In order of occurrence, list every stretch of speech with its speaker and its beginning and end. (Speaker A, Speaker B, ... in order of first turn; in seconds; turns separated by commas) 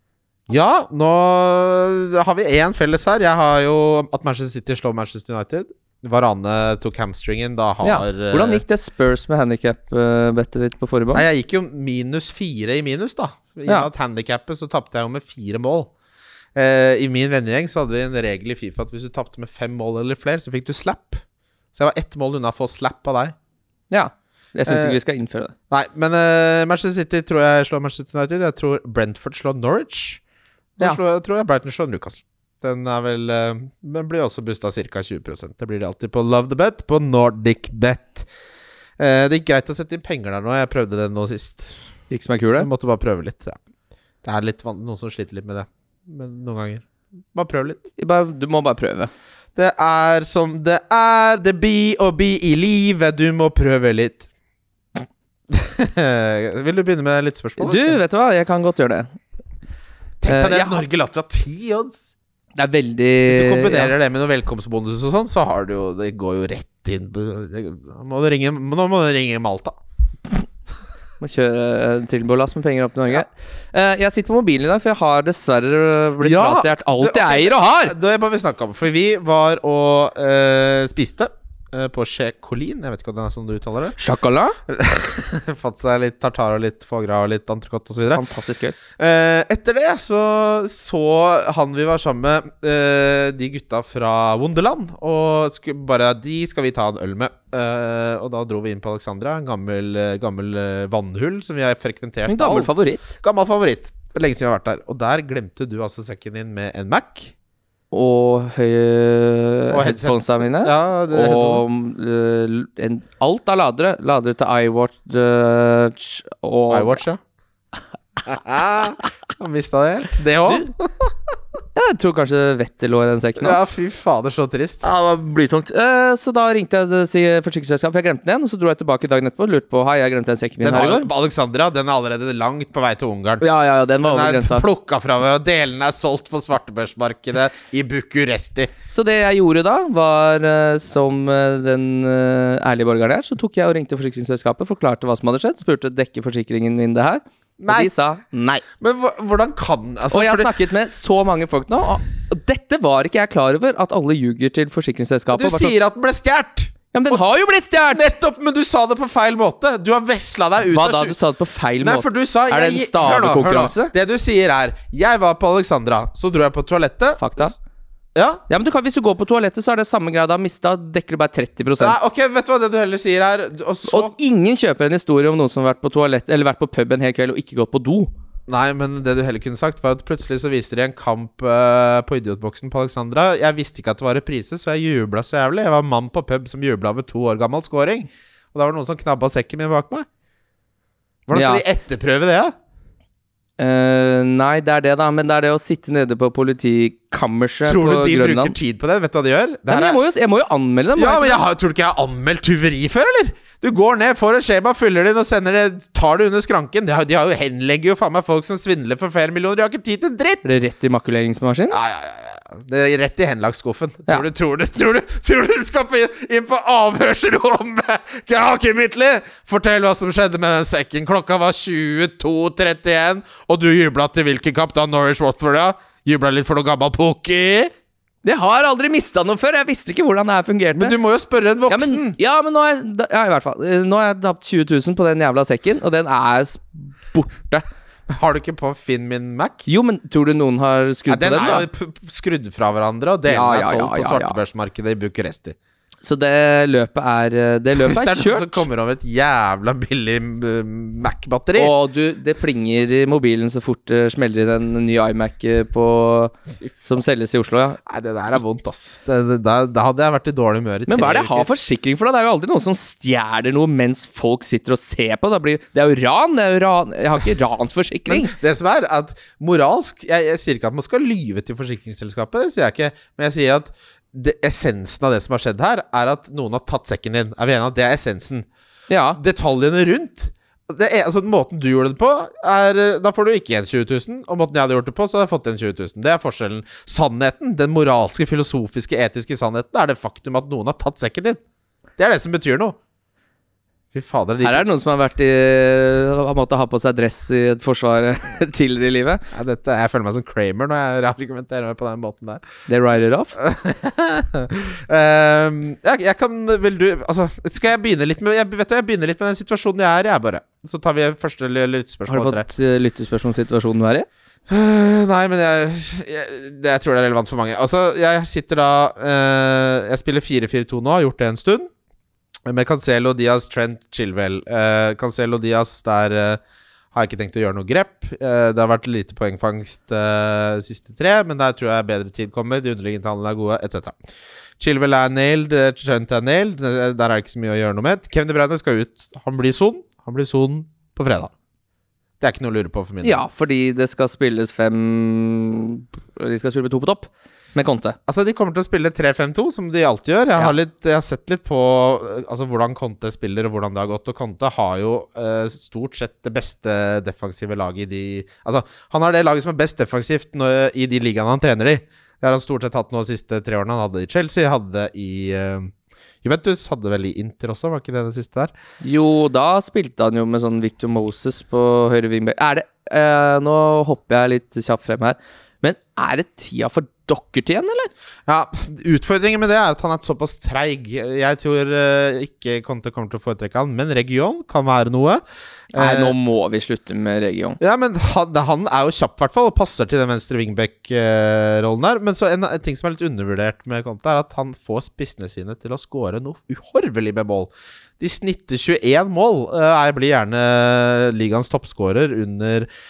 Speaker A: 0.5-8.6, Speaker B: 7.8-11.2, Speaker A: 11.1-15.9, Speaker A: 16.5-21.2, Speaker A: 21.7-23.3, Speaker B: 23.9-25.5, Speaker A: 24.6-25.0, Speaker A: 25.7-30.2, Speaker A: 30.8-38.3, Speaker A: 39.0-41.8, Speaker B: 42.1-42.7, Speaker A: 42.6-43.6, Speaker A: 44.2-47.8, Speaker B: 48.0-49.1, Speaker A: 49.5-54.3, Speaker A: 55.5-57.9, Speaker B: 57.6-59.1, Speaker A: 60.2-62.1, Speaker B: 60.2-60.8, Speaker B: 62.6-63.9, Speaker A: 63.2-69.7, Speaker B: 71.2-77.9, Speaker A: 76.2-84.0, Speaker B: 84.0-84.6, Speaker A: 84.7-88.2, Speaker B: 88.1-88.8, Speaker A: 88.9-102.7, Speaker B: 102.3-103.2, Speaker A: 103.2-107.3, Speaker B: 107.9-117.0, Speaker A: 109.7-111.6, Speaker A: 116.7-117.2, Speaker A: 118.2-121.2, Speaker B: 121.7-123.6, Speaker A: 123.4-124.8, Speaker B: 124.8-131.1, Speaker A: 130.6-133.4, Speaker B: 133.4-134.7, Speaker A: 134.0-138.7, Speaker B: 138.9-148.6, Speaker A: 147.6-147.9, Speaker A: 148.5-150.5, Speaker B: 150.1-155.7, Speaker A: 155.3-157.2, Speaker B: 156.9-158.0, Speaker A: 157.9-161.1, Speaker B: 160.7-163.9, Speaker A: 161.8-167.6, Speaker B: 167.2-167.6, Speaker A: 168.1-168.4, Speaker B: 168.5-172.0, Speaker A: 171.8-174.1, Speaker B: 173.9-178.1, Speaker A: 178.5-190.1, Speaker A: 191.3-192.5, Speaker B: 191.3-191.6, Speaker B: 193.6-198.6, Speaker A: 197.6-200.0, Speaker B: 199.7-201.4, Speaker A: 201.0-210.5, Speaker B: 210.4-211.8, Speaker A: 211.7-227.7, Speaker B: 228.2-231.0, Speaker A: 230.7-232.2, Speaker B: 231.7-237.7, Speaker A: 238.1-239.7, Speaker B: 239.7-241.7, Speaker A: 241.1-245.6, Speaker B: 243.3-244.4, Speaker B: 246.0-248.6, Speaker A: 247.7-251.7, Speaker B: 251.6-257.8, Speaker A: 257.9-261.5, Speaker B: 260.9-268.3, Speaker A: 268.1-278.5, Speaker B: 278.9-279.2, Speaker A: 279.2-291.4, Speaker A: 292.0-292.8, Speaker A: 293.9-294.7, Speaker B: 294.4-299.2, Speaker A: 299.3-302.4, Speaker B: 302.7-303.4, Speaker A: 303.4-312.5, Speaker B: 312.1-314.1, Speaker A: 314.5-321.7, Speaker A: 322.4-326.4, Speaker A: 326.9-334.0, Speaker A: 334.6-341.3, Speaker A: 342.2-343.2, Speaker B: 343.0-347.9, Speaker A: 348.1-368.5, Speaker B: 368.8-377.9, Speaker A: 378.3-386.1, Speaker B: 385.7-387.6, Speaker A: 387.6-402.7